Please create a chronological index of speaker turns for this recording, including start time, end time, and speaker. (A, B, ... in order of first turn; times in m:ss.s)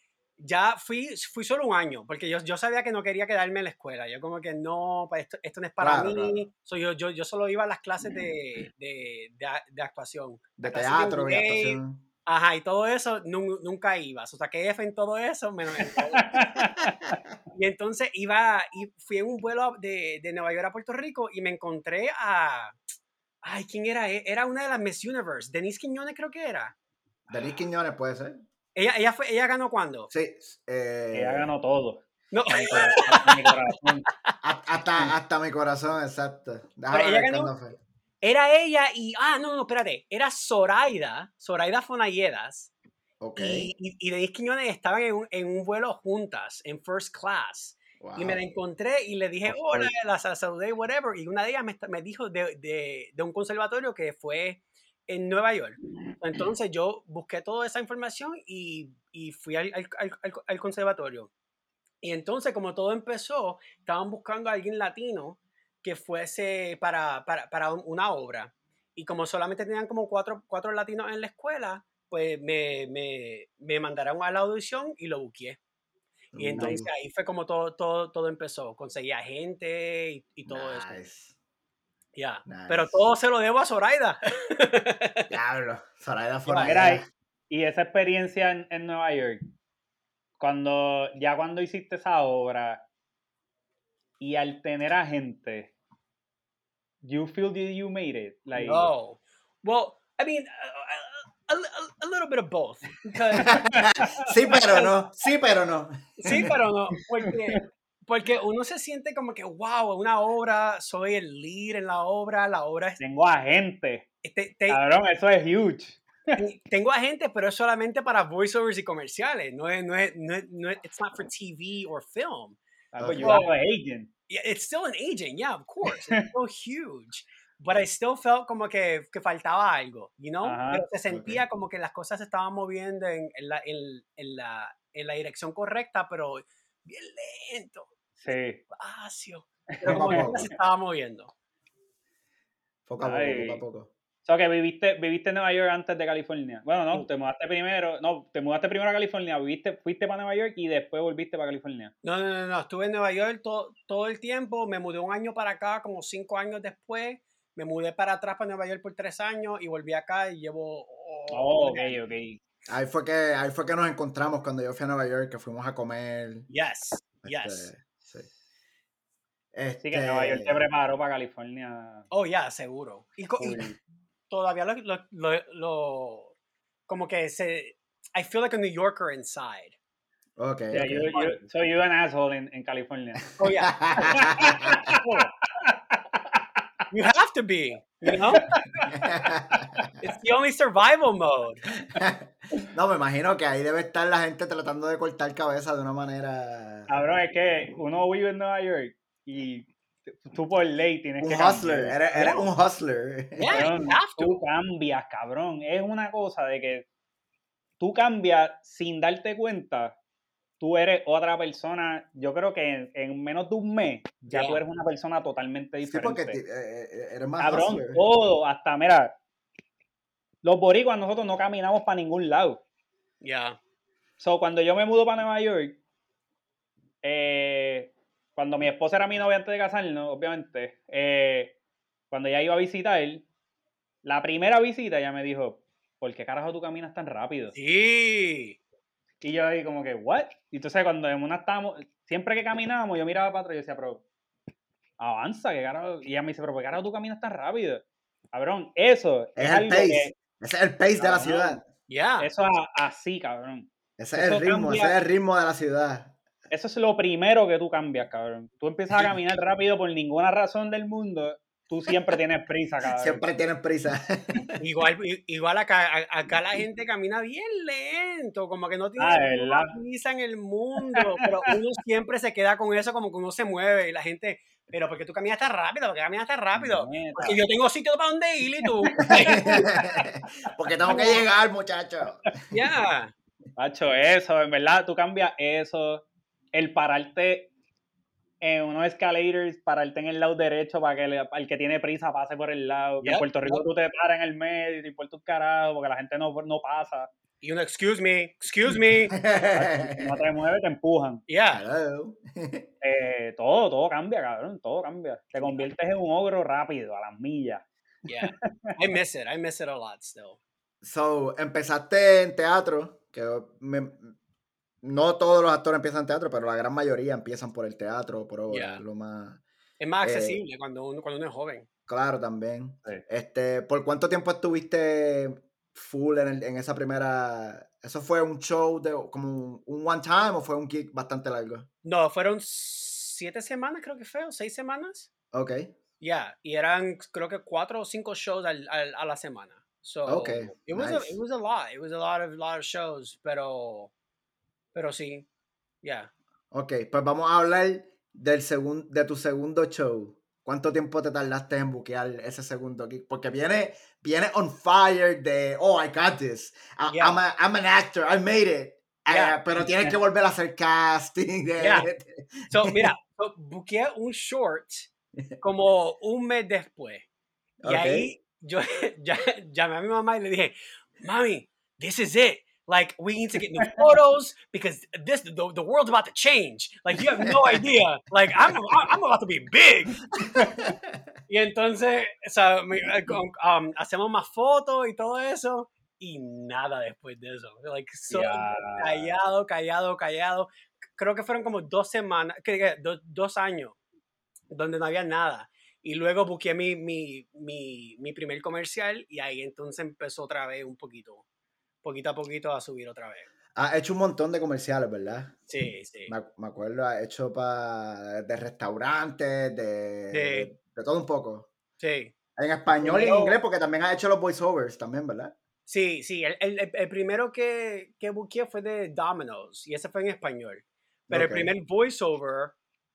0:00.4-0:16.6 A
0:05.8-0:06.4 B
0:10.6-0:12.0 B
0:16.2-0:17.2 C
0:17.5-0:22.8 A
0:23.4-0:26.8 A
0:27.3-0:28.4 B
0:28.8-0:30.1 A
0:30.1-0:31.5 B
0:31.1-0:34.1 C
0:32.3-0:33.6 A
0:34.4-0:37.8 B
0:36.9-0:37.5 A
0:38.2-0:42.7 A
0:43.2-0:43.7 B
0:43.4-1:01.3 A
0:48.0-0:48.4 B
0:49.5-0:49.9 B
1:02.0-1:15.6 A
1:16.3-1:16.9 B
1:16.4-1:21.0 A
1:20.5-1:21.4 B
1:22.2-1:25.3 A
1:22.5-1:23.1 B
1:25.3-1:27.0 B
1:26.5-1:26.7 A
1:26.7-1:29.5 C
1:30.4-1:32.8 C
1:34.2-1:35.7 C
1:37.0-1:38.9 C
1:38.6-1:43.6 A
1:43.4-1:46.5 B
1:43.7-1:44.3 C
1:44.5-1:45.0 A
1:46.2-1:53.0 A
1:47.3-1:47.6 C
1:53.0-1:54.1 C
1:54.2-1:54.8 A
1:54.7-1:56.4 C
1:56.4-2:02.6 A
2:02.9-2:04.1 C
2:03.0-2:03.4 B
2:03.2-2:03.5 A
2:04.3-2:18.0 A
2:10.4-2:10.9 C
2:11.1-2:11.4 B
2:18.2-2:18.6 C
2:18.7-2:21.3 A
2:19.8-2:20.3 C
2:19.9-2:20.4 B
2:22.9-2:23.9 B
2:23.0-2:23.6 C
2:24.3-2:31.9 C
2:32.0-2:42.0 A
2:41.3-2:42.4 C
2:42.7-2:46.5 B
2:46.5-2:47.7 A
2:47.2-2:48.3 B
2:48.0-2:48.3 C
2:49.5-2:50.6 B
2:49.8-2:52.1 C
2:52.1-2:53.7 A
2:53.4-2:53.8 C
2:54.3-2:56.3 A
2:56.9-2:59.8 A
3:00.4-3:01.1 B
3:00.7-3:01.4 A
3:00.7-3:03.4 C
3:03.4-3:03.8 A
3:03.6-3:04.8 B
3:04.0-3:06.4 C
3:06.9-3:08.7 A
3:08.4-3:09.0 C
3:08.9-3:09.9 B
3:09.6-3:09.8 C
3:10.0-3:11.7 A
3:11.9-3:16.9 B
3:16.9-3:22.5 C
3:21.2-3:23.7 B
3:23.4-3:24.4 A
3:23.5-3:26.9 C
3:27.8-3:30.0 C
3:30.6-3:36.4 C
3:34.3-3:34.6 A
3:35.8-3:38.0 B
3:37.4-3:39.2 C
3:40.4-3:42.6 C
3:43.2-3:43.6 A
3:44.2-3:45.8 C
3:47.0-3:51.6 C
3:52.1-3:53.2 C
3:54.0-3:57.6 C
3:57.5-3:58.6 A
3:59.2-4:04.0 C
4:05.0-4:10.2 C
4:09.4-4:11.6 B
4:11.0-4:11.6 C
4:11.9-4:12.3 A
4:12.2-4:15.0 C
4:14.0-4:16.2 B
4:16.5-4:23.2 C
4:22.9-4:24.6 B
4:24.6-4:40.0 A
4:29.0-4:29.7 C
4:36.6-4:37.4 C
4:38.6-4:39.2 C
4:39.2-4:42.3 B
4:40.9-4:41.2 A
4:42.5-4:43.1 A
4:43.6-4:47.5 C
4:48.4-4:57.1 C
4:53.0-4:53.7 A
4:57.4-4:59.2 A
4:59.2-5:00.2 B
4:59.6-5:01.2 C
5:01.3-5:01.6 A
5:01.5-5:02.7 B
5:02.8-5:07.6 C
5:08.1-5:10.4 A
5:08.2-5:08.7 C
5:10.8-5:14.1 B
5:14.8-5:19.4 B
5:18.5-5:18.8 A
5:19.8-5:21.7 A
5:20.0-5:20.4 B
5:21.9-5:31.7 B
5:31.8-5:35.1 A
5:35.3-5:35.7 B
5:36.0-5:43.9 A
5:40.1-5:41.2 B
5:44.7-5:45.3 A
5:45.8-5:46.1 A
5:46.5-6:02.9 B
5:56.9-5:57.2 A
5:59.1-5:59.7 A
6:01.6-6:01.9 A
6:02.5-6:07.1 A
6:07.6-6:08.1 B
6:07.6-6:20.0 A
6:17.2-6:17.6 B
6:20.2-6:21.0 B
6:20.4-6:20.7 C
6:21.3-6:33.8 A
6:28.1-6:29.1 C
6:34.5-6:41.2 A
6:41.8-6:43.3 A
6:43.6-6:45.4 B
6:45.5-6:46.1 A
6:46.1-6:51.5 B
6:50.1-6:50.5 A
6:51.8-6:52.1 A
6:52.4-6:55.3 B
6:52.7-6:53.4 A
6:55.7-7:02.6 A
7:01.1-7:01.5 B